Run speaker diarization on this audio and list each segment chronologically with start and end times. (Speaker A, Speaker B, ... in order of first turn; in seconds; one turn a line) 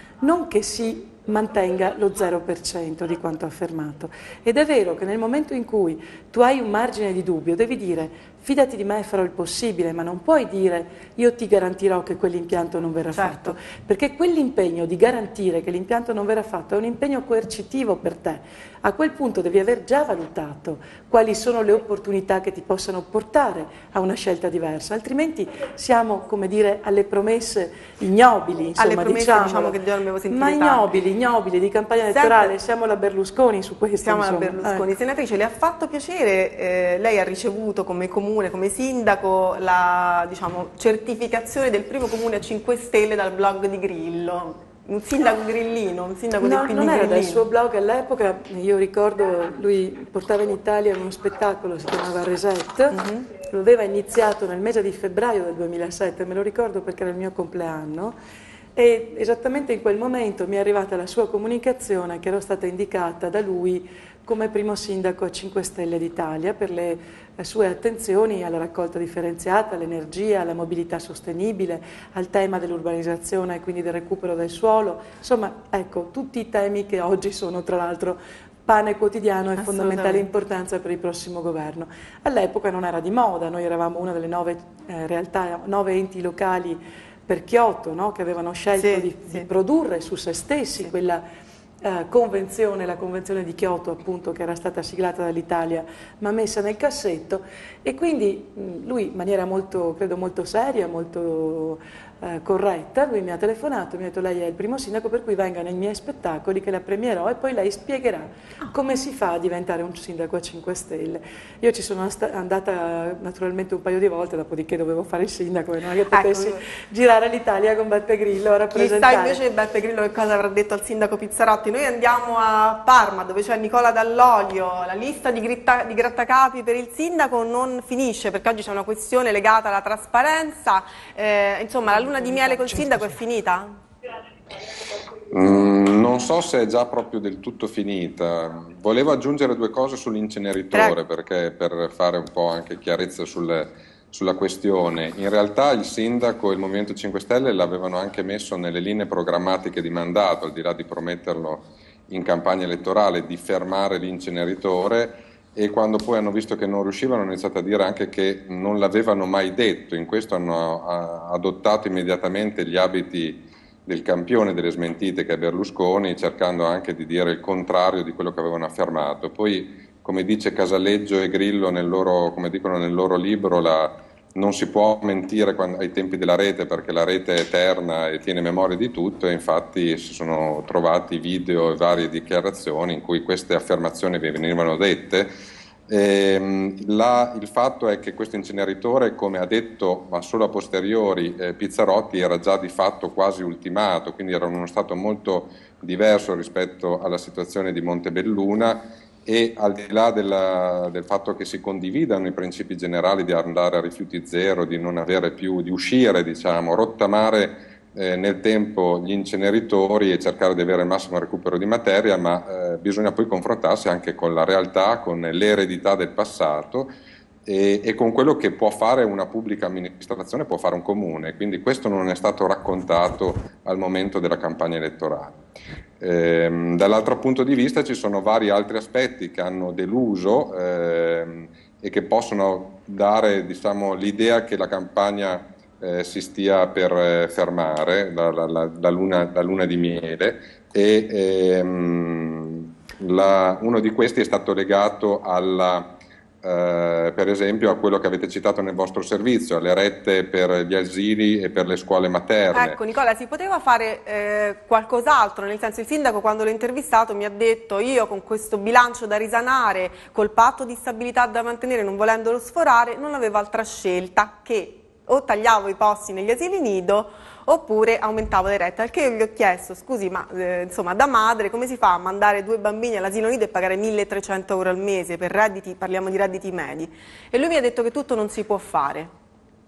Speaker A: 0.2-29.8
Speaker B: 13.1-13.5
Speaker B: 28.8-31.0
Speaker A: 30.3-34.9
Speaker B: 32.1-32.5
Speaker B: 34.0-47.4
Speaker A: 46.4-58.1
Speaker B: 52.9-53.2
Speaker A: 58.8-91.2
Speaker B: 79.6-80.2
Speaker B: 88.8-89.5
Speaker A: 91.8-119.4
Speaker B: 116.1-116.6
Speaker B: 118.7-133.8
Speaker C: 135.3-185.3
Speaker C: 185.9-216.9
Speaker C: 217.4-225.4
Speaker C: 226.0-245.9
Speaker C: 246.4-252.8
Speaker B: 252.5-279.1